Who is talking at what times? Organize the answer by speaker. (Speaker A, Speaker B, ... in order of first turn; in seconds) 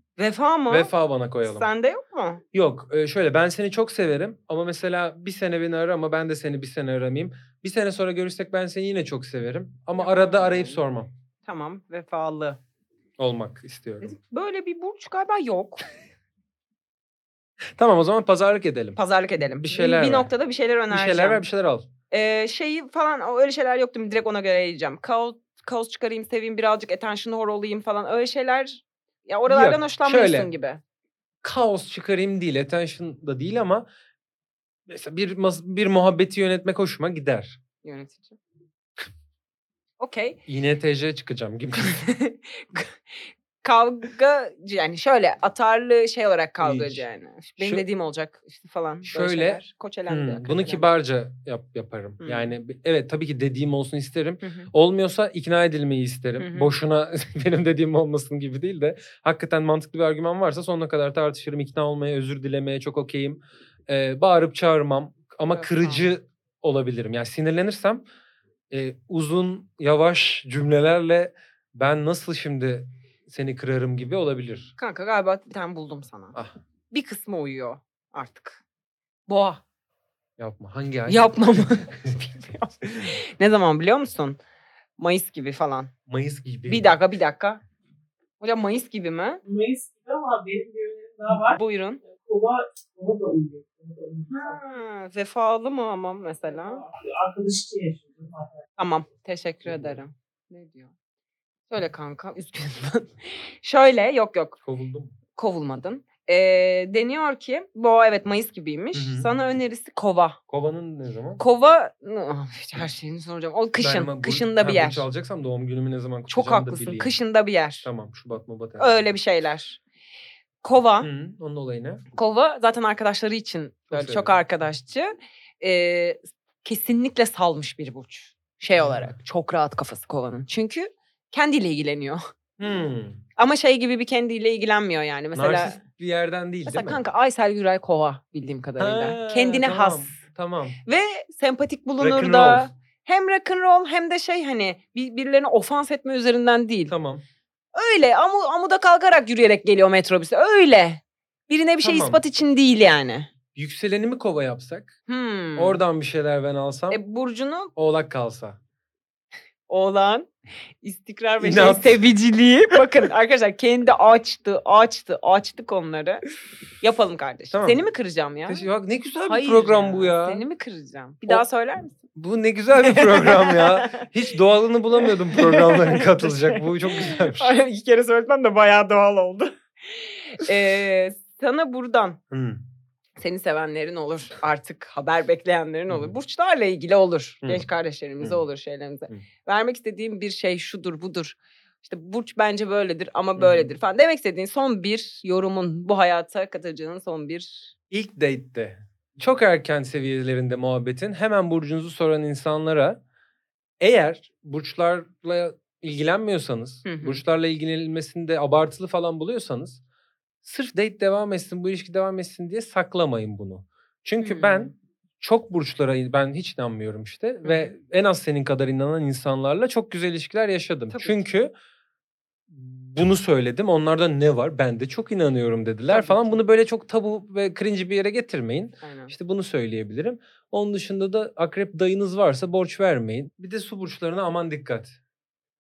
Speaker A: 0.2-0.9, 1.4-2.4, 10.0-10.8, 11.5-12.6, 14.0-15.8, 18.9-21.4, 22.1-30.8, 37.8-38.4, 40.0-40.4, 41.8-43.0, 43.6-50.9, 52.2-52.5, 54.4-54.7, 56.4-56.7, 65.5-66.0, 74.8-76.4, 76.9-78.6, 79.3-79.6, 81.1-84.4, 85.0-85.9, 86.7-87.6, 88.4-89.4, 91.4-92.0, 94.3-96.8, 98.8-100.9, 101.7-104.6, 105.3-110.4, 111.4-115.0, 116.3-117.9, 118.8-119.8, 120.6-121.1, 122.1-132.2, 133.4-135.8, 136.7-140.2, 140.9-146.9, 147.7-153.3, 155.1-155.8, 156.9-157.7, 159.7-160.3, 160.8-166.2, 166.8-168.7, 169.3-172.0, 172.7-174.1, 175.0-182.2, 183.2-197.8, 206.9-207.2, 214.2-214.7, 217.4-217.7, 220.9-221.2, 225.9-226.4, 228.8-229.1
Speaker B: 0.7-1.7, 2.5-11.1, 13.2-14.2, 17.8-19.0, 19.6-20.3, 20.9-21.9, 29.5-30.5, 31.4-33.9, 34.9-37.6, 40.5-42.0, 46.6-47.0, 47.6-47.9, 49.0-68.0, 68.7-74.7, 80.4-81.6, 86.1-86.9, 104.6-105.1, 108.9-109.3, 110.5-111.4, 113.8-117.1, 117.8-119.0, 121.0-122.0, 123.9-124.3, 128.8-129.1, 132.6-133.2, 135.3-137.0, 138.8-140.8, 142.0-142.7, 146.9-147.2, 151.8-152.2, 153.6-155.0, 155.6-157.0, 157.8-158.6, 161.4-162.0, 167.5-167.8, 168.5-170.4, 172.2-177.6, 182.3-182.6, 193.4-193.7, 197.9-203.0, 203.8-209.8, 210.4-221.5, 222.5-235.0
Speaker C: 89.5-94.6, 96.5-98.6